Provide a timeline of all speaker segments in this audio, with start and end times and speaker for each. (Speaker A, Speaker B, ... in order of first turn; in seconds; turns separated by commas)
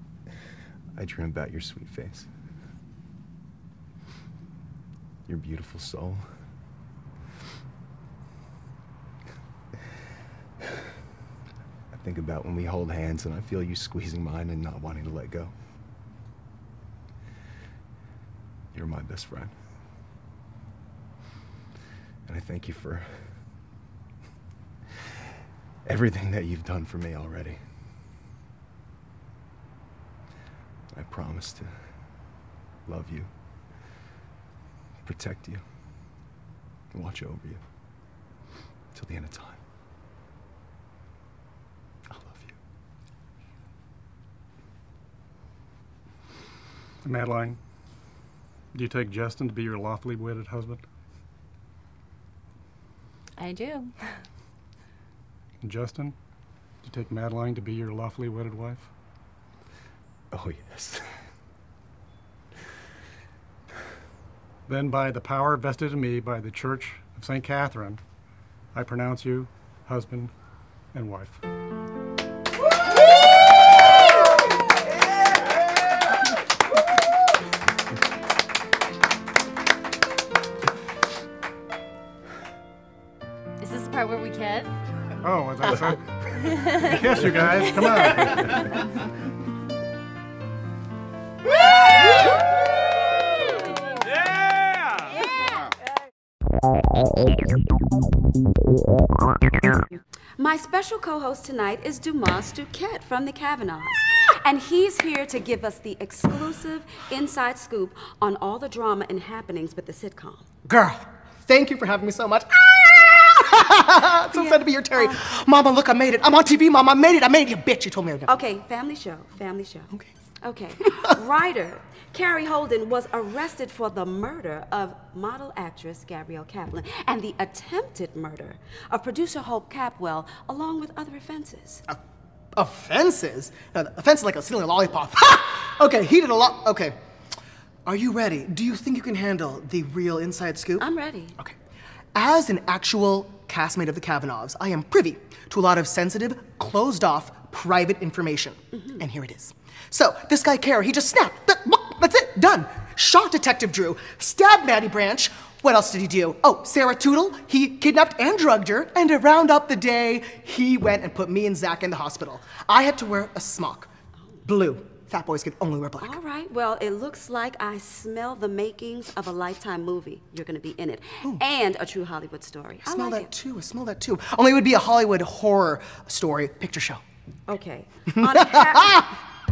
Speaker A: 1.0-2.3, Speaker A: 5.3-6.3, Speaker A: 11.9-15.5, Speaker A: 18.7-19.5, Speaker A: 22.2-23.4, Speaker A: 25.9-27.6, Speaker A: 30.9-31.9, Speaker A: 32.9-33.3, Speaker A: 35.0-35.6, Speaker A: 36.9-37.6, Speaker A: 38.9-39.6, Speaker A: 42.1-42.6, Speaker B: 47.0-47.6, Speaker B: 48.7-50.8, Speaker C: 53.4-54.2, Speaker B: 55.6-56.2, Speaker B: 56.8-58.9, Speaker A: 60.3-61.1, Speaker B: 64.7-68.0, Speaker B: 68.7-70.3, Speaker B: 70.9-71.4, Speaker C: 83.6-84.8, Speaker B: 85.2-86.1, Speaker C: 85.6-88.7, Speaker B: 86.9-88.3, Speaker D: 100.4-110.5, Speaker E: 110.6-118.4, Speaker D: 114.3-115.4, Speaker D: 118.2-119.9, Speaker D: 120.4-131.8, Speaker E: 132.5-136.9, Speaker E: 137.9-141.6, Speaker D: 140.8-141.4, Speaker E: 142.1-163.9, Speaker D: 148.7-149.0, Speaker E: 164.4-166.2, Speaker D: 166.0-173.3, Speaker E: 172.8-177.0, Speaker D: 177.5-179.2